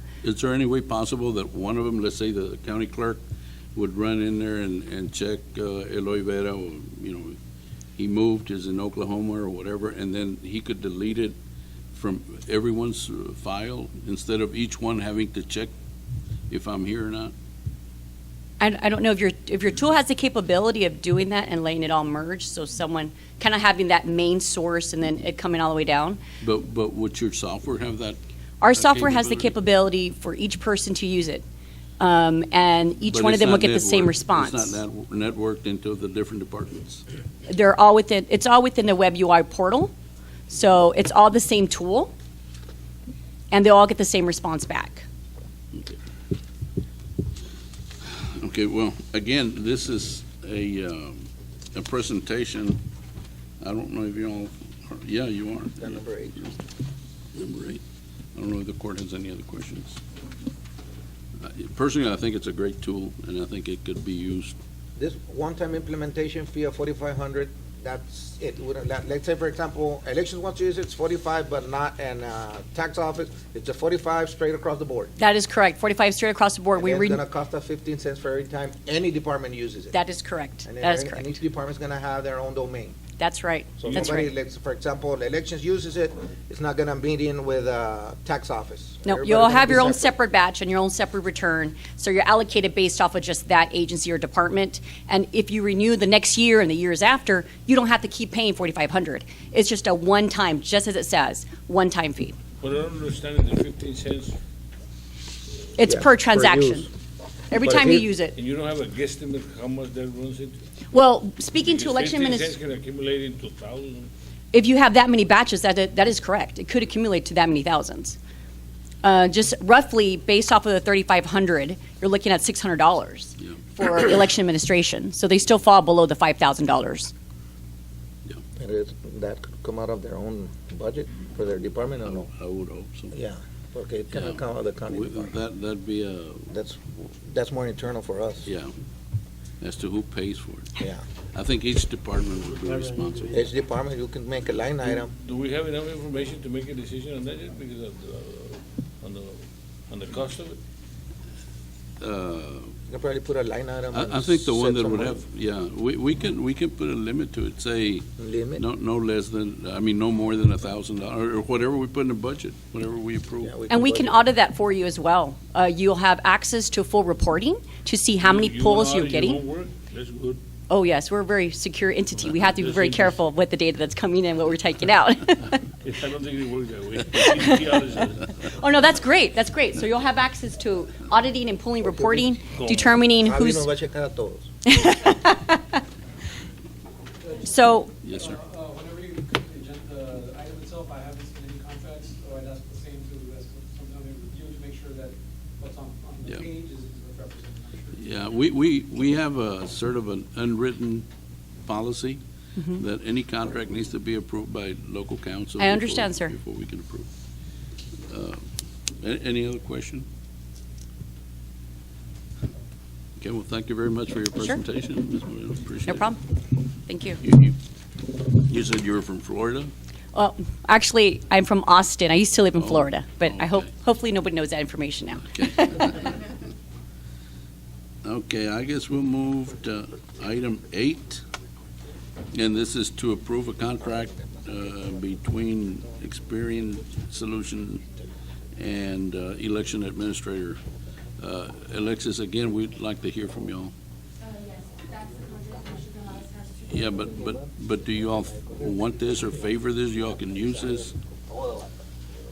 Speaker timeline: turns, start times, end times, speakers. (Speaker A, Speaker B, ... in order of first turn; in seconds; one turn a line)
Speaker A: 0.2-3.2
Speaker A: 3.7-7.4
Speaker A: 8.0-11.4
Speaker A: 11.9-15.7
Speaker A: 16.5-17.3
Speaker B: 18.6-26.2
Speaker A: 26.4-28.2
Speaker B: 28.6-31.4
Speaker A: 28.7-29.5
Speaker B: 32.0-34.8
Speaker A: 33.1-37.0
Speaker B: 37.5-39.9
Speaker B: 40.5-42.1
Speaker B: 43.5-45.0
Speaker A: 48.0-52.8
Speaker A: 53.6-56.5
Speaker C: 55.8-56.5
Speaker A: 57.3-57.8
Speaker A: 58.4-60.0
Speaker A: 61.4-64.6
Speaker C: 65.0-75.2
Speaker B: 75.2-77.2
Speaker C: 76.7-80.0
Speaker B: 79.9-81.2
Speaker C: 80.7-83.0
Speaker B: 83.2-84.3
Speaker C: 83.8-90.1
Speaker B: 89.0-102.4
Speaker D: 102.6-104.4
Speaker B: 105.8-106.9
Speaker C: 105.8-106.9
Speaker B: 107.5-108.3
Speaker C: 107.6-108.1
Speaker D: 108.3-110.6
Speaker B: 110.9-112.5
Speaker D: 111.5-114.1
Speaker B: 114.5-118.2
Speaker B: 119.0-127.1
Speaker C: 128.6-132.3
Speaker A: 132.1-133.1
Speaker C: 133.1-135.3
Speaker A: 134.1-136.5
Speaker C: 136.5-138.5
Speaker A: 138.5-138.7
Speaker A: 139.6-140.8
Speaker C: 140.8-141.0
Speaker A: 141.3-143.4
Speaker C: 143.3-145.1
Speaker D: 144.8-150.6
Speaker A: 152.0-152.7
Speaker C: 152.9-155.2
Speaker A: 153.9-163.5
Speaker C: 158.2-158.6
Speaker C: 163.4-164.2
Speaker B: 163.7-169.4
Speaker D: 168.2-170.4
Speaker B: 170.7-175.6
Speaker D: 172.4-173.2
Speaker D: 175.8-178.3
Speaker B: 177.2-177.7
Speaker B: 178.5-183.7
Speaker C: 181.9-182.4
Speaker D: 182.5-183.0
Speaker C: 182.9-184.5
Speaker B: 184.7-185.6
Speaker E: 187.2-198.1
Speaker B: 187.4-187.9
Speaker A: 188.0-188.4
Speaker A: 197.9-201.1
Speaker A: 201.7-202.2
Speaker A: 202.7-207.1
Speaker B: 205.6-206.3
Speaker A: 208.1-208.4
Speaker A: 209.0-210.1
Speaker A: 213.2-216.1
Speaker B: 215.9-216.2
Speaker B: 216.9-217.2
Speaker A: 217.2-217.6
Speaker A: 218.3-219.7
Speaker B: 220.1-226.0
Speaker A: 222.6-223.7
Speaker A: 225.3-226.3
Speaker A: 228.0-231.2
Speaker A: 232.3-237.8
Speaker A: 238.5-240.6
Speaker A: 241.2-243.7
Speaker F: 244.2-246.7
Speaker A: 246.7-250.9
Speaker C: 250.4-251.7